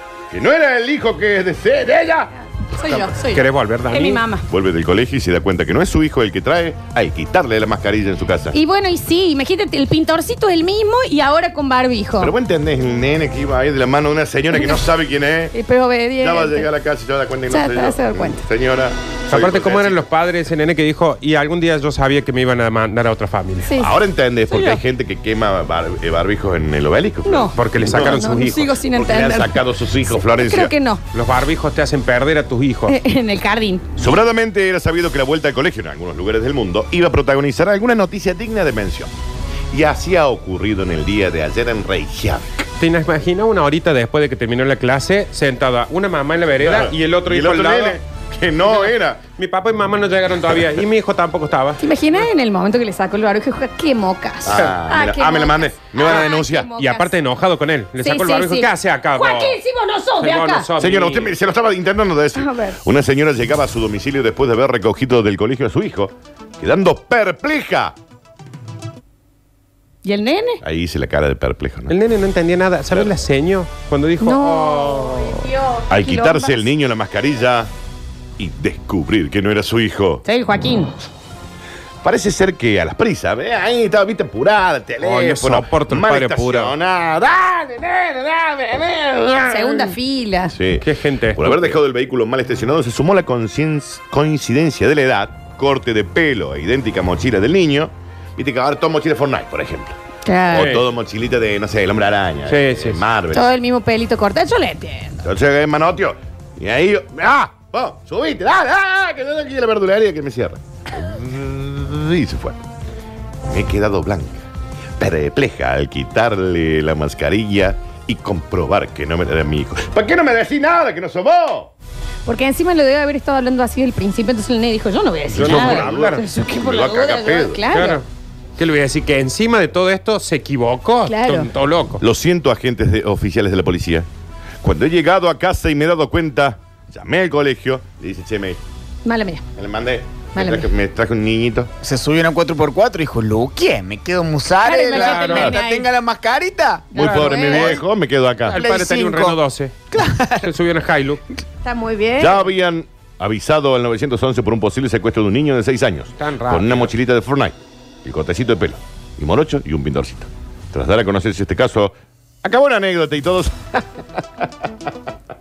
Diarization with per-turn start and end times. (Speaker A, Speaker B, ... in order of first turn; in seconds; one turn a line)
Speaker A: 0.3-3.1
Speaker B: 2.6-4.5
Speaker C: 3.3-4.2
Speaker A: 4.5-8.6
Speaker B: 8.5-12.3
Speaker A: 12.2-15.6
Speaker B: 14.5-14.8
Speaker B: 15.5-16.7
Speaker A: 16.2-20.1
Speaker B: 17.5-18.4
Speaker C: 19.3-23.7
Speaker B: 23.6-24.0
Speaker A: 23.8-28.3
Speaker B: 24.5-24.8
Speaker B: 27.2-29.6
Speaker C: 27.5-28.8
Speaker A: 28.9-30.7
Speaker B: 30.2-31.0
Speaker C: 31.1-33.0
Speaker B: 32.9-33.9
Speaker A: 34.0-39.1
Speaker A: 39.7-42.7
Speaker C: 42.8-48.0
Speaker A: 46.6-49.2
Speaker C: 48.6-51.8
Speaker B: 51.8-57.2
Speaker A: 54.4-56.7
Speaker C: 56.0-59.6
Speaker B: 58.0-60.7
Speaker C: 60.2-61.3
Speaker A: 60.8-68.0
Speaker B: 62.4-62.8
Speaker B: 70.0-70.6
Speaker A: 70.6-72.0
Speaker C: 71.9-75.5
Speaker A: 72.9-73.2
Speaker B: 74.2-76.7
Speaker A: 75.9-77.7
Speaker A: 78.4-80.2
Speaker B: 80.2-80.9
Speaker A: 82.0-90.0
Speaker C: 85.0-86.8
Speaker B: 89.5-90.5
Speaker A: 90.5-100.0
Speaker C: 90.8-91.8
Speaker B: 100.2-100.8
Speaker A: 100.5-103.5
Speaker C: 100.5-100.9
Speaker C: 102.5-103.0
Speaker B: 103.3-105.2
Speaker A: 105.2-112.6
Speaker A: 113.5-114.4
Speaker A: 115.0-121.7
Speaker B: 122.2-128.0
Speaker A: 125.3-127.6
Speaker C: 125.3-126.2
Speaker C: 127.7-128.1
Speaker C: 128.6-132.0
Speaker B: 131.1-131.5
Speaker A: 132.0-134.1
Speaker A: 134.6-138.6
Speaker B: 139.1-139.4
Speaker A: 139.6-141.7
Speaker B: 140.3-140.7
Speaker D: 141.8-146.9
Speaker B: 144.6-145.9
Speaker C: 144.9-145.6
Speaker A: 145.0-145.6
Speaker B: 146.9-147.8
Speaker C: 146.9-147.8
Speaker A: 146.9-148.7
Speaker C: 148.5-149.8
Speaker D: 148.6-149.4
Speaker D: 149.9-150.5
Speaker C: 150.4-151.2
Speaker B: 151.6-152.5
Speaker A: 152.2-163.9
Speaker C: 156.2-156.9